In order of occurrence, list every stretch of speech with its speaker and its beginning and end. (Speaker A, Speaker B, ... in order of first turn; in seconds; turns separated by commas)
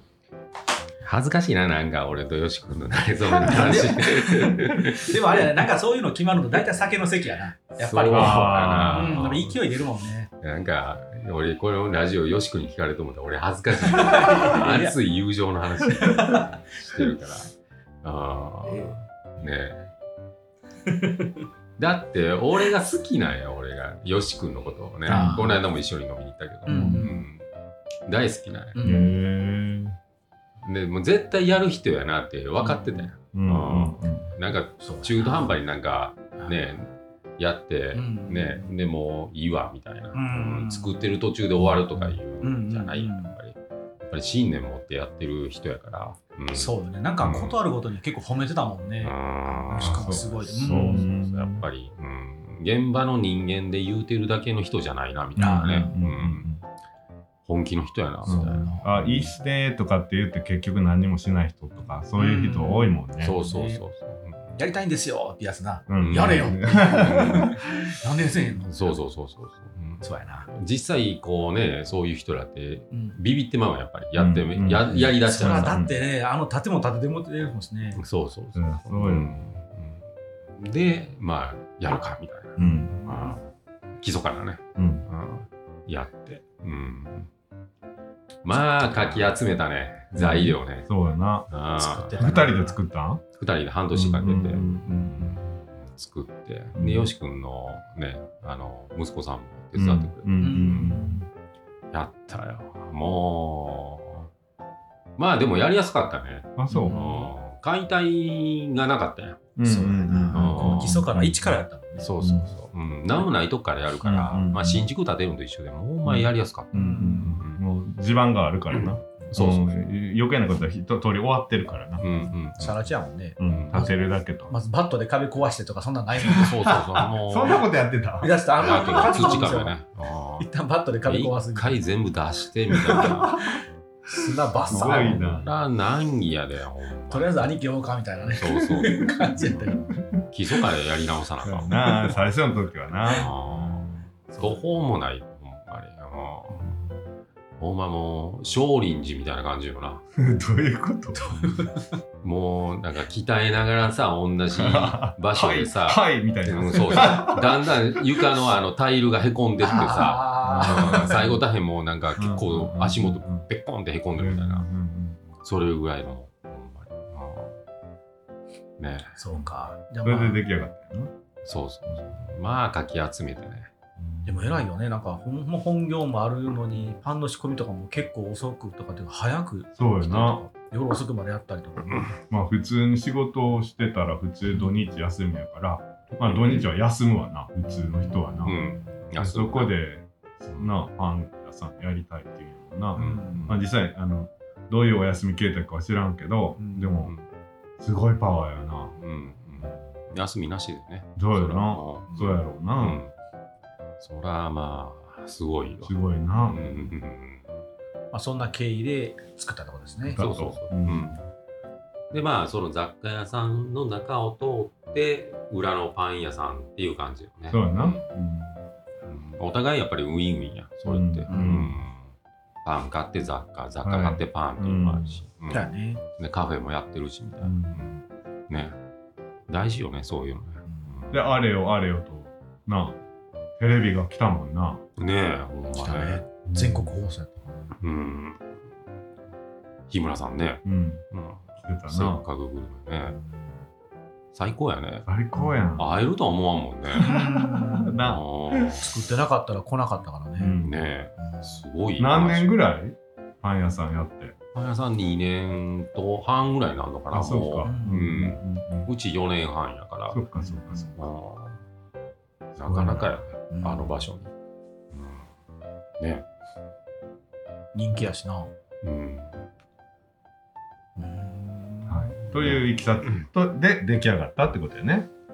Speaker A: 1.0-5.5, Speaker B: 3.5-10.3, Speaker A: 7.8-9.5, Speaker C: 8.1-9.4, Speaker A: 10.4-19.9, Speaker B: 13.8-14.9, Speaker B: 15.8-16.6, Speaker B: 18.7-18.9, Speaker B: 20.9-21.4, Speaker A: 21.8-27.4, Speaker B: 25.1-25.6, Speaker C: 25.1-25.4, Speaker B: 26.7-27.2, Speaker C: 26.7-27.1, Speaker A: 28.1-28.9, Speaker B: 28.8-29.1, Speaker C: 28.8-30.0, Speaker A: 30.6-47.6, Speaker B: 32.6-33.1, Speaker C: 33.3-34.3, Speaker B: 34.8-35.6, Speaker B: 38.0-38.7, Speaker B: 40.1-41.0, Speaker C: 41.6-42.2, Speaker B: 42.4-43.4, Speaker B: 46.5-51.1, Speaker A: 49.0-56.5, Speaker C: 49.8-51.6, Speaker C: 55.4-56.6, Speaker B: 55.4-56.0, Speaker A: 57.5-59.3, Speaker B: 58.2-58.9, Speaker C: 58.2-63.4, Speaker B: 62.2-63.8, Speaker A: 63.2-64.6, Speaker B: 64.6-68.9, Speaker C: 65.9-67.6, Speaker A: 66.0-67.6, Speaker A: 68.6-75.8, Speaker B: 70.0-70.5, Speaker B: 72.9-73.2, Speaker C: 74.2-76.0, Speaker B: 75.0-78.0, Speaker A: 78.0-80.0, Speaker C: 78.6-79.5, Speaker A: 80.6-83.4, Speaker B: 82.6-83.4, Speaker C: 82.6-83.0, Speaker A: 84.0-87.3, Speaker C: 84.8-85.0, Speaker A: 88.4-90.9, Speaker C: 90.2-91.5, Speaker A: 91.5-92.3, Speaker B: 91.8-92.8, Speaker C: 92.2-93.2, Speaker A: 93.4-101.0, Speaker C: 93.9-95.4, Speaker C: 96.8-97.1, Speaker C: 99.8-101.2, Speaker B: 100.4-101.2, Speaker A: 101.9-104.3, Speaker A: 105.2-109.5, Speaker C: 106.6-107.1, Speaker B: 106.7-107.3, Speaker C: 109.6-111.6, Speaker B: 109.6-112.1, Speaker A: 110.3-111.1, Speaker A: 112.0-117.6, Speaker C: 112.2-112.5, Speaker C: 114.0-114.9, Speaker C: 116.0-122.1, Speaker B: 116.7-117.4, Speaker A: 118.7-119.8, Speaker A: 122.0-122.9, Speaker B: 122.6-124.0, Speaker C: 123.4-124.5, Speaker A: 123.5-123.8, Speaker B: 124.5-126.8, Speaker A: 126.3-127.7, Speaker C: 126.7-128.3, Speaker B: 128.2-129.8, Speaker A: 128.6-130.5, Speaker B: 130.4-131.8, Speaker A: 131.1-133.4, Speaker C: 132.9-133.6, Speaker B: 134.1-135.2, Speaker C: 134.7-135.5, Speaker A: 134.7-137.5, Speaker B: 137.1-139.9, Speaker A: 138.3-139.2, Speaker C: 139.2-140.2, Speaker A: 140.3-141.7, Speaker C: 141.4-143.8, Speaker A: 143.1-146.7, Speaker B: 144.3-144.6, Speaker A: 147.6-150.0, Speaker C: 150.2-151.5, Speaker B: 151.2-151.9, Speaker A: 152.2-164.7, Speaker C: 154.5-158.3, Speaker B: 159.6-161.4, Speaker C: 160.4-161.4, Speaker C: 162.2-163.4, Speaker C: 164.2-165.2, Speaker A: 165.4-167.6, Speaker A: 168.8-169.2, Speaker B: 169.2-170.4, Speaker C: 170.0-171.1, Speaker A: 171.4-173.7, Speaker C: 174.0-174.6, Speaker B: 174.3-182.1, Speaker C: 179.8-180.4, Speaker C: 182.3-188.6, Speaker A: 186.4-186.7, Speaker B: 187.9-188.9, Speaker A: 188.4-189.8, Speaker C: 189.2-197.1, Speaker B: 192.9-193.5, Speaker A: 193.0-193.6, Speaker B: 196.6-196.9, Speaker C: 197.8-198.9, Speaker A: 199.0-203.1, Speaker C: 201.2-203.0, Speaker A: 204.0-207.5, Speaker C: 205.8-206.6, Speaker B: 208.1-210.2, Speaker C: 210.1-211.2, Speaker A: 210.1-211.2, Speaker A: 212.1-218.0, Speaker C: 217.5-218.6, Speaker A: 219.1-222.1, Speaker C: 220.9-221.8, Speaker B: 221.3-221.7, Speaker A: 222.6-227.9, Speaker C: 223.8-225.2, Speaker B: 225.5-226.0, Speaker C: 227.4-227.9, Speaker A: 228.5-228.8, Speaker A: 229.5-231.2, Speaker B: 230.7-231.0, Speaker C: 231.1-233.0, Speaker C: 233.6-234.8, Speaker A: 235.0-236.2, Speaker B: 235.8-237.8, Speaker C: 236.5-236.9, Speaker A: 237.8-238.5, Speaker A: 239.9-243.2, Speaker C: 240.7-241.0, Speaker C: 241.6-242.2, Speaker B: 243.1-243.5, Speaker A: 244.3-245.1, Speaker C: 245.1-246.0, Speaker A: 245.8-247.2, Speaker B: 247.0-248.0, Speaker C: 247.0-248.8, Speaker A: 248.1-249.0, Speaker B: 248.8-250.6, Speaker C: 250.4-250.8, Speaker A: 250.6-252.5, Speaker B: 251.2-251.5, Speaker C: 252.0-254.3, Speaker A: 254.5-260.2, Speaker C: 257.1-258.9, Speaker B: 257.6-258.0, Speaker C: 260.1-260.9, Speaker B: 260.4-260.9, Speaker A: 260.9-261.6, Speaker A: 262.6-264.3, Speaker C: 262.7-263.1, Speaker B: 263.5-264.0, Speaker A: 264.9-265.3, Speaker A: 266.0-266.3, Speaker B: 267.7-268.5, Speaker A: 268.8-269.4, Speaker B: 271.0-272.1, Speaker C: 271.9-275.1, Speaker A: 272.3-273.3